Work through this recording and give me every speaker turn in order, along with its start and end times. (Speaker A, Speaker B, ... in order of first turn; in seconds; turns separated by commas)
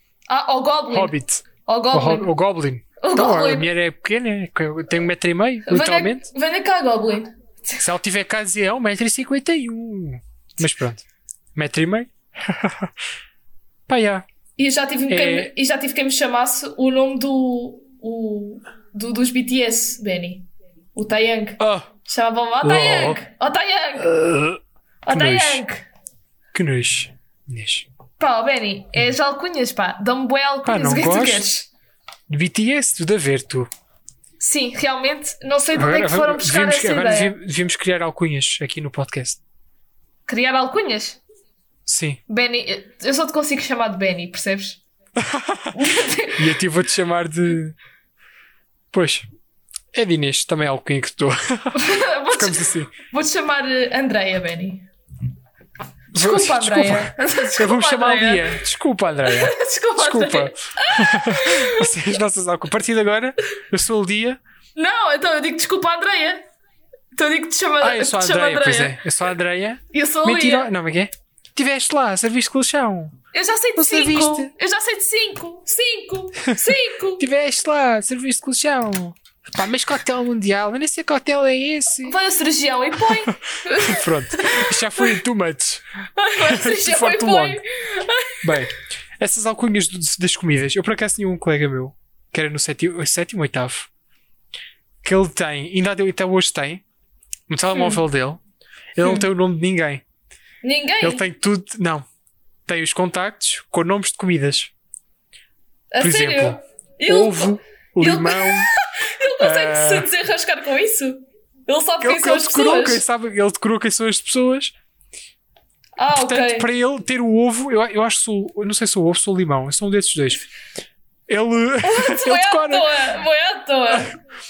Speaker A: 0.3-2.3, Speaker B: 0.9-6.3, Speaker A: 3.0-3.7, Speaker A: 5.7-7.8, Speaker B: 7.8-12.9, Speaker B: 13.9-14.2, Speaker A: 14.6-24.1, Speaker B: 15.1-15.5, Speaker B: 21.6-21.9, Speaker B: 22.6-23.2, Speaker B: 24.0-25.6, Speaker A: 25.0-25.8, Speaker B: 26.5-27.9, Speaker A: 28.2-31.7, Speaker B: 30.6-31.5, Speaker B: 32.3-33.7, Speaker A: 34.4-37.3, Speaker B: 35.7-39.4, Speaker A: 40.3-41.2, Speaker B: 41.9-42.2, Speaker A: 42.3-44.8, Speaker B: 45.2-45.7, Speaker A: 45.7-46.5, Speaker B: 46.4-47.8, Speaker B: 48.9-49.3, Speaker B: 49.9-52.9, Speaker A: 51.7-54.9, Speaker B: 56.1-64.4, Speaker A: 56.1-58.6, Speaker A: 59.2-61.9, Speaker A: 64.8-66.5, Speaker A: 67.1-69.0, Speaker B: 67.8-73.2, Speaker A: 69.9-70.7, Speaker A: 73.3-77.2, Speaker B: 73.8-74.5, Speaker B: 77.2-82.2, Speaker A: 82.0-85.1, Speaker B: 83.8-85.8, Speaker A: 86.2-88.6, Speaker B: 86.4-87.6, Speaker B: 88.4-93.9, Speaker B: 95.0-96.8, Speaker B: 97.5-98.4, Speaker A: 97.7-98.0, Speaker B: 99.0-100.0, Speaker A: 100.6-101.2, Speaker B: 101.0-102.0, Speaker B: 102.7-104.7, Speaker A: 105.9-113.0, Speaker B: 106.0-108.7, Speaker B: 109.4-110.1, Speaker B: 112.0-114.7, Speaker A: 116.0-116.7, Speaker B: 116.2-120.5, Speaker B: 121.3-122.9, Speaker A: 121.8-124.1